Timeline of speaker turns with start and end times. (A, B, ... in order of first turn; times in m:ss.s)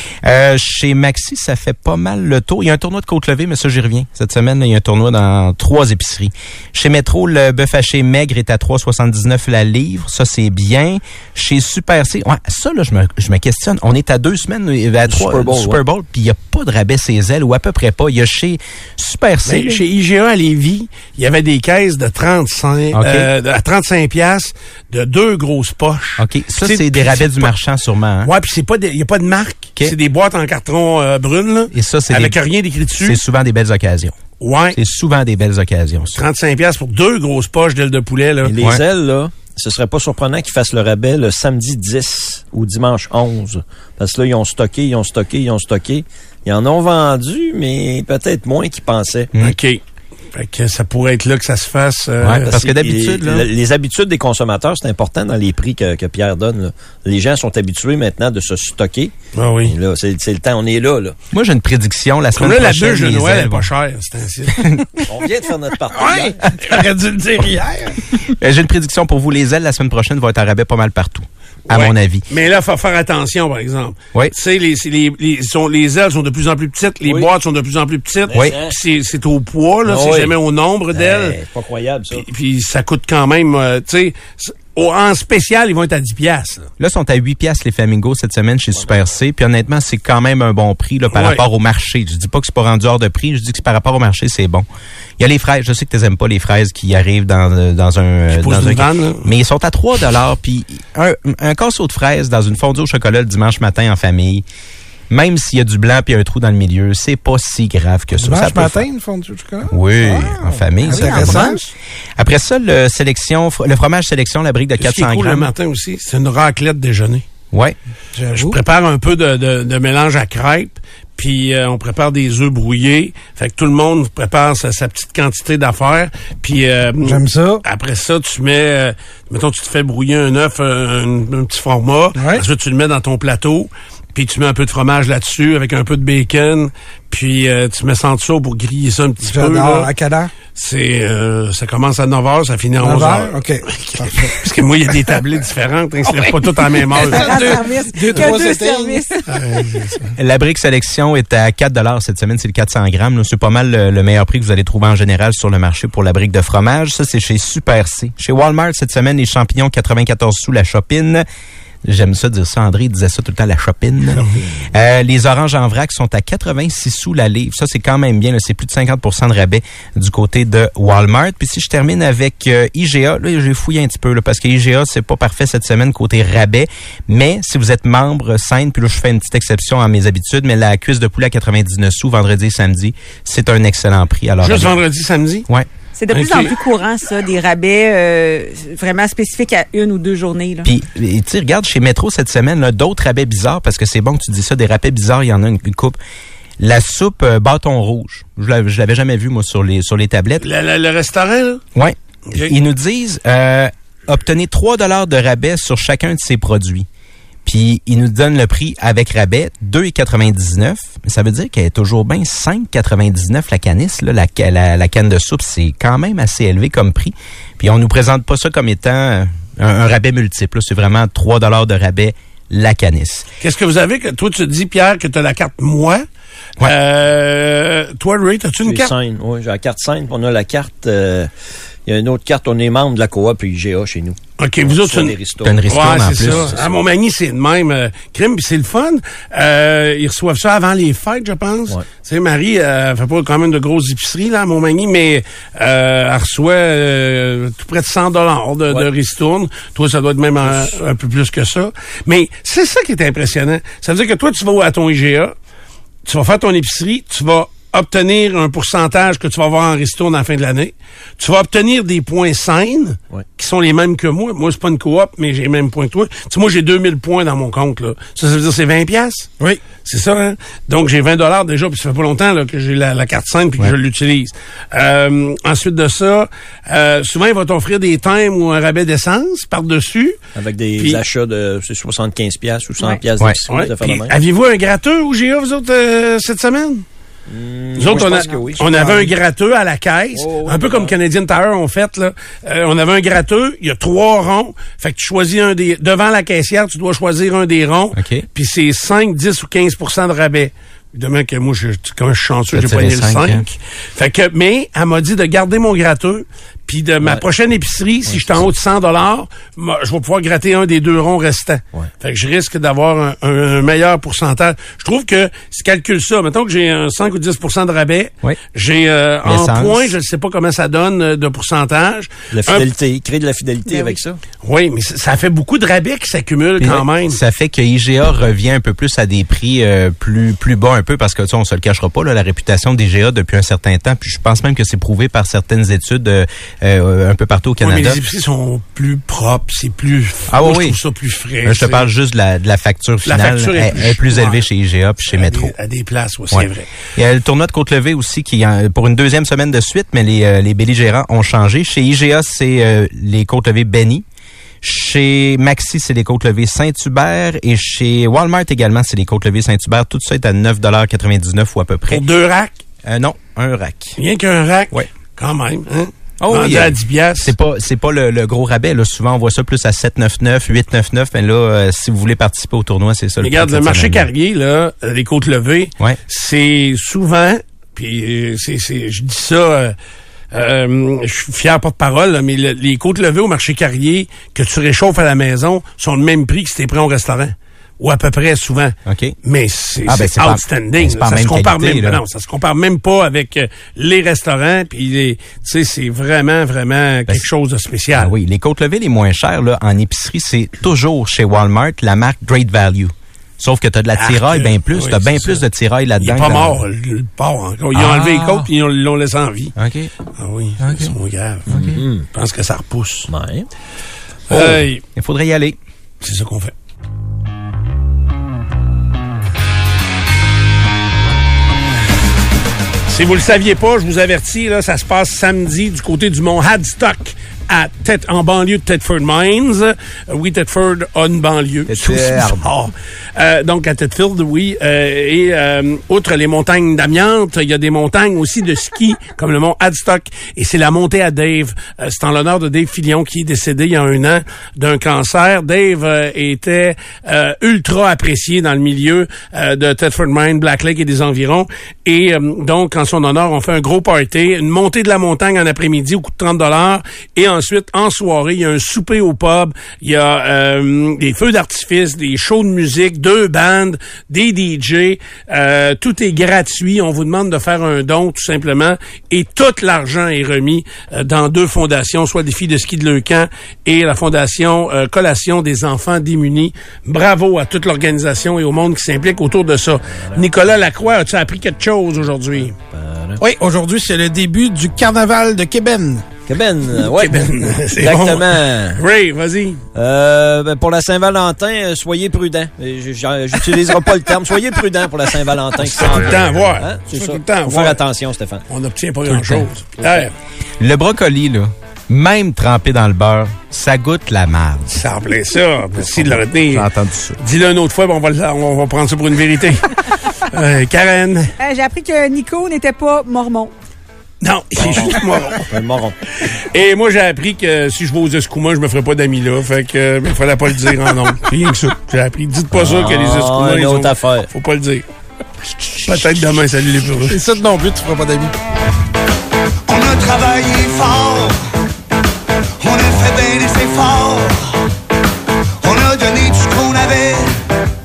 0:00.2-0:19.8 A
0:15.1-0:15.8 B
0:19.4-0:27.5 C
0:22.9-0:23.3 A
0:26.2-0:28.3 A
0:28.2-0:33.2 C
0:31.7-0:32.4 A
0:33.0-0:34.2 A
0:34.4-0:34.8 C
0:34.7-0:36.2 A
0:36.1-0:38.5 C
0:38.4-0:49.3 B
0:49.4-0:49.8 C
0:50.3-0:52.5 C
0:52.2-0:53.5 A
0:52.4-0:59.1 B
0:59.3-0:59.7 C
0:59.6-1:01.2 B
1:01.3-1:03.7 A
1:02.3-1:04.8 C
1:04.5-1:05.0 A
1:05.1-1:06.4 B
1:05.9-1:08.2 D
1:08.2-1:12.2 A
1:11.7-1:21.4 C
1:18.3-1:18.7 B
1:19.8-1:20.3 B
1:20.9-1:22.2 B
1:22.1-1:26.7 C
1:26.8-1:34.6 A
1:31.1-1:31.4 C
1:35.2-1:44.4 A
1:38.3-1:39.3 C
1:45.1-1:48.8 A
1:48.2-1:51.7 D
1:49.7-1:51.6 A
1:50.8-1:51.6 E
1:52.2-1:55.5 A
1:54.8-1:57.2 C
1:57.5-1:57.8 A
1:58.1-1:58.6 D
1:58.3-2:19.9 C
2:07.0-2:07.6 D
2:12.2-2:12.4 D
2:19.2-2:20.3 D
2:20.5-2:27.4 C
2:22.8-2:24.5 D
2:26.1-2:29.0 D
2:27.0-2:29.2 E
2:29.3-2:30.1 C
2:30.2-2:41.2 A
2:41.8-3:04.8 A
3:04.4-3:05.4 C
3:06.0-3:10.7 E
3:06.1-3:06.5 C
3:10.6-3:16.0 A
3:16.6-3:20.4 A
3:20.4-3:21.6 C
3:21.7-3:26.8 A
3:22.3-3:22.5 C
3:27.4-3:43.2 A
3:43.4-3:46.0 C
3:46.6-3:48.9 C
3:48.6-3:51.3 B
3:51.8-3:56.7 B
3:54.4-3:55.1 C
3:55.4-3:56.6 A
3:55.7-4:15.3 C
4:16.0-4:29.3 C
4:29.8-4:40.2 C
4:40.3-4:44.1 B
4:40.8-4:41.0 C
4:43.5-4:46.8 C
4:47.3-4:48.6 B
4:47.8-5:22.7 C
4:47.9-4:48.4 E
4:48.6-4:49.1 D
4:50.1-4:50.9 B
4:57.9-4:58.2 A
5:02.5-5:03.5 A
5:08.1-5:08.4 B
5:19.2-5:19.9 A
5:22.3-5:24.2 B
5:23.7-5:24.0 E
5:24.4-5:27.2 C
5:26.6-5:38.0 A
5:37.6-5:41.9 C
5:40.3-5:40.8 A
5:41.4-5:45.5 A
5:43.0-5:44.4 C
5:45.1-5:46.7 C
5:46.3-5:54.0 A
5:54.6-6:02.0 A
6:01.9-6:02.6 C
6:02.8-6:04.0 A
6:04.0-6:07.3 C
6:06.2-6:14.1 A
6:13.2-6:19.7 C
6:20.3-6:38.1 C
6:28.9-6:29.2 A
6:29.8-6:32.0 A
6:38.0-6:46.6 A
6:44.0-6:45.4 C
6:46.0-6:49.5 C
6:47.7-6:48.5 A
6:49.6-6:49.9 A
6:50.2-6:53.1 C
6:50.6-6:51.0 A
6:51.5-6:51.8 A
6:51.5-6:52.0 B
6:53.1-6:53.5 B
6:54.3-6:54.8 C
6:54.3-6:55.6 A
6:56.0-6:56.5 C
7:02.9-8:02.5 C
7:11.7-7:12.5 A
7:59.9-8:00.3 B
8:02.6-8:03.2 B
8:03.2-8:06.0 D
8:06.3-8:08.8 B
8:06.8-8:09.6 C
8:09.7-8:18.4 B
8:15.6-8:17.8 C
8:18.5-8:20.1 C
8:19.0-8:19.5 A
8:20.6-8:24.8 A
8:24.7-8:29.8 C
8:25.8-8:27.2 A
8:30.3-8:31.3 C
8:31.4-8:33.5 E
8:34.2-8:35.5 C
8:34.6-8:36.0 B
8:36.2-8:44.8 C
8:42.5-8:44.3 B
8:45.8-8:47.2 C
8:47.1-8:48.3 D
8:49.7-8:51.4 F
8:52.6-8:54.6 F
8:55.6-8:57.4 F